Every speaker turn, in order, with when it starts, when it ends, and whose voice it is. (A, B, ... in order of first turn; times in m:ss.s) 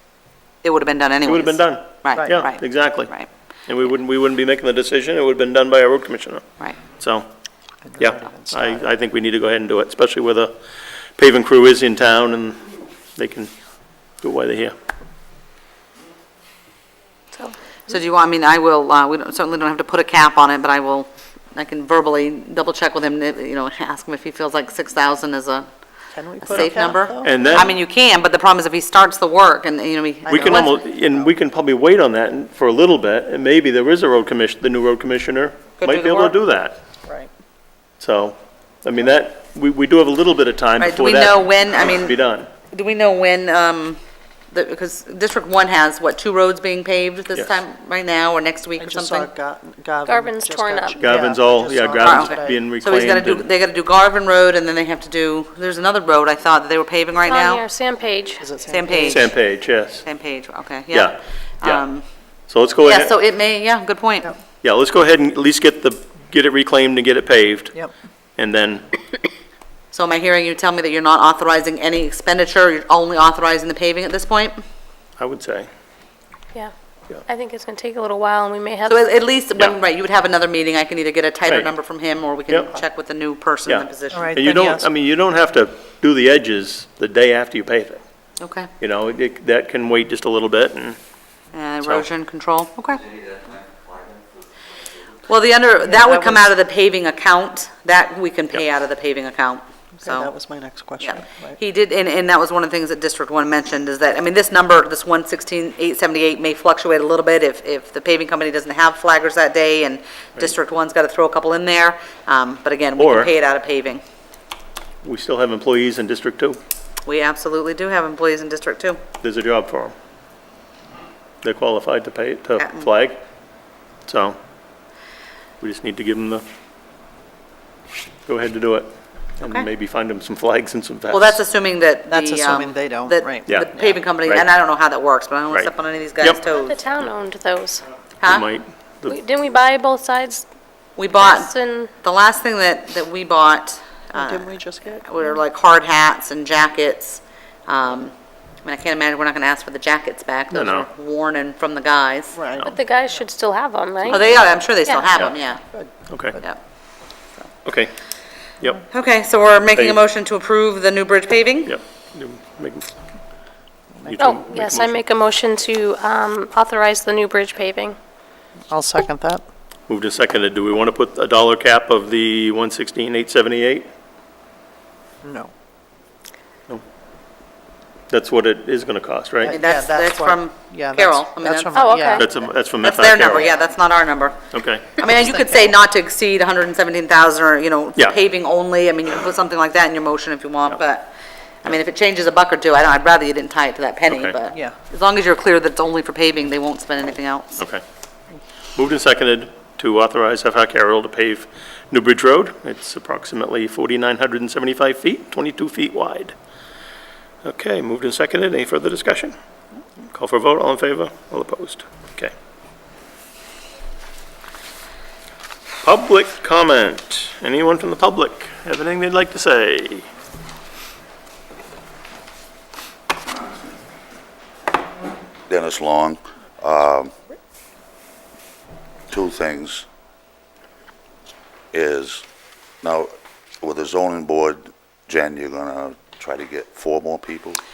0:00.6-0:03.3 A
0:01.2-0:03.1 B
0:03.7-0:07.3 B
0:07.8-0:08.8 C
0:08.0-0:10.6 B
0:11.2-0:13.5 B
0:14.2-0:14.7 B
0:17.9-0:25.7 A
0:26.1-0:27.7 C
0:26.4-0:30.8 A
0:27.2-0:27.7 B
0:30.2-0:31.3 C
0:30.3-0:36.8 B
0:35.8-0:36.4 A
0:38.0-0:42.5 B
0:40.8-0:42.1 A
0:42.7-0:44.0 A
0:44.5-0:49.3 A
0:47.3-0:47.6 B
0:48.8-0:52.6 C
0:50.1-0:51.1 D
0:51.0-0:53.4 B
0:52.0-0:57.6 A
0:57.2-0:58.5 D
0:58.4-0:59.2 C
0:58.7-0:59.3 A
0:59.0-1:00.0 B
1:00.0-1:02.0 A
1:00.9-1:01.8 B
1:02.5-1:03.1 B
1:02.8-1:04.3 A
1:04.6-1:07.8 B
1:08.4-1:08.8 B
1:09.9-1:14.6 A
1:15.2-1:15.7 B
1:16.5-1:19.0 D
1:18.8-1:24.6 A
1:21.4-1:21.7 B
1:22.5-1:22.7 B
1:23.6-1:28.0 B
1:24.1-1:24.9 C
1:28.4-1:28.7 A
1:28.8-1:31.0 B
1:31.5-1:33.0 A
1:35.3-1:40.3 A
1:36.0-1:36.4 C
1:40.0-1:41.6 C
1:41.0-1:54.0 A
1:53.0-1:53.3 B
1:55.0-1:56.6 B
1:57.0-1:59.0 A
1:59.2-1:59.9 B
2:01.4-2:03.2 B
2:02.6-2:02.9 A
2:04.0-2:04.4 B
2:05.6-2:06.4 B
2:08.3-2:11.4 B
2:09.4-2:09.7 A
2:11.1-2:16.8 A
2:12.1-2:13.9 C
2:13.5-2:14.4 B
2:15.5-2:16.4 B
2:16.4-2:17.8 D
2:18.2-2:18.5 A
2:18.2-2:19.2 B
2:19.1-2:20.5 D
2:21.0-2:28.1 A
2:21.2-2:21.9 D
2:24.1-2:25.2 C
2:28.6-2:32.4 A
2:30.5-2:30.9 B
2:32.3-2:33.2 C
2:32.6-2:35.2 D
2:34.1-2:35.6 A
2:35.7-2:36.4 C
2:36.1-2:36.4 B
2:37.6-2:37.9 B
2:38.9-2:41.7 A
2:41.6-2:42.9 B
2:44.0-2:44.4 C
2:44.1-2:45.0 B
2:44.2-2:48.0 D
2:48.7-2:49.4 C
2:49.9-2:53.9 B
2:55.2-2:55.5 C
2:58.1-2:59.6 B
2:59.4-3:02.3 C
2:59.5-3:02.2 A
3:01.7-3:02.3 D
3:02.2-3:03.5 B
3:02.8-3:04.4 A
3:04.5-3:04.8 B
3:05.0-3:11.1 A
3:11.6-3:17.6 A
3:14.1-3:14.4 B
3:17.6-3:17.8 B
3:18.8-3:26.3 B
3:27.4-3:29.3 B
3:30.1-3:32.3 B
3:35.8-3:40.1 B
3:45.5-3:47.1 E
3:49.1-3:49.8 E
3:51.7-3:52.2 E
3:52.8-3:57.6 E